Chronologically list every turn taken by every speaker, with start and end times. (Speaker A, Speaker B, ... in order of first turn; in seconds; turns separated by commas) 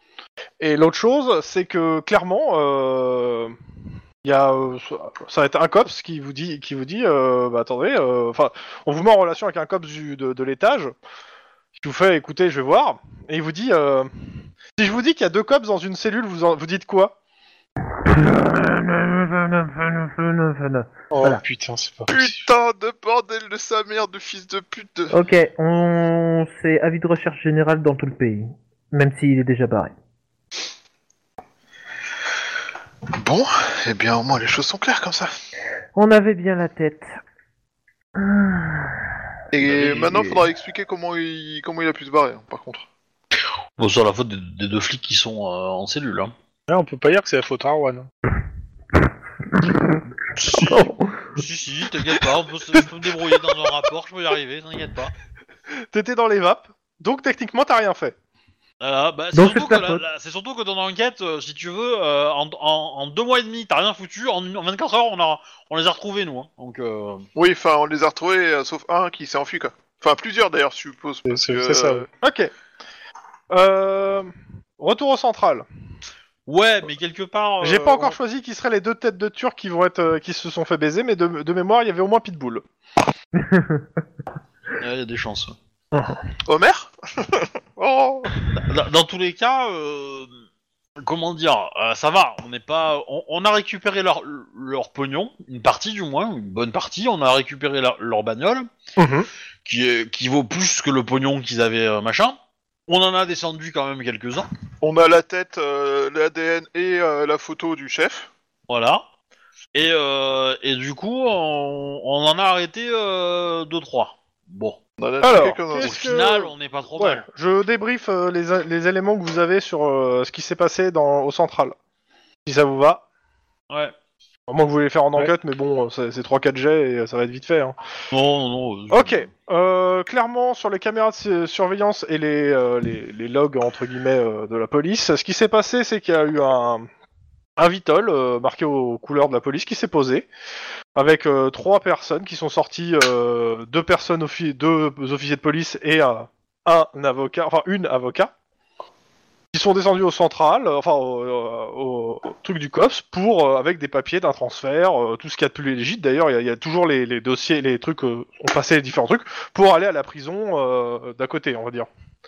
Speaker A: 0.6-3.6, Speaker A: 4.2-10.9, Speaker A: 11.8-17.2, Speaker B: 18.0-21.4, Speaker C: 21.1-22.5, Speaker D: 22.1-25.1, Speaker B: 25.1-29.9, Speaker D: 33.2-35.3, Speaker B: 36.0-37.2, Speaker B: 38.2-39.1, Speaker D: 39.5-42.9, Speaker E: 39.6-40.4, Speaker E: 43.8-46.3, Speaker C: 46.7-48.1, Speaker E: 50.4-55.1, Speaker B: 50.6-51.1, Speaker A: 55.9-58.1, Speaker E: 58.8-67.3, Speaker B: 59.3-60.0, Speaker D: 67.4-72.1, Speaker C: 71.3-72.1, Speaker A: 72.2-72.5, Speaker A: 73.5-75.7, Speaker E: 76.5-78.2, Speaker A: 77.6-82.7, Speaker B: 83.4-83.8, Speaker E: 84.8-85.6, Speaker D: 86.5-88.5, Speaker E: 88.6-90.3, Speaker E: 91.0-98.7, Speaker A: 99.0-99.3, Speaker E: 99.7-104.5, Speaker D: 104.8-108.3, Speaker E: 108.7-109.0, Speaker E: 109.7-114.8, Speaker D: 115.0-116.0, Speaker A: 115.2-121.8, Speaker E: 115.8-117.2, Speaker A: 122.5-123.0, Speaker A: 124.5-127.8, Speaker E: 128.1-129.3, Speaker A: 128.9-136.9, Speaker A: 137.6-140.3, Speaker A: 140.9-148.3, Speaker A: 149.5-161.9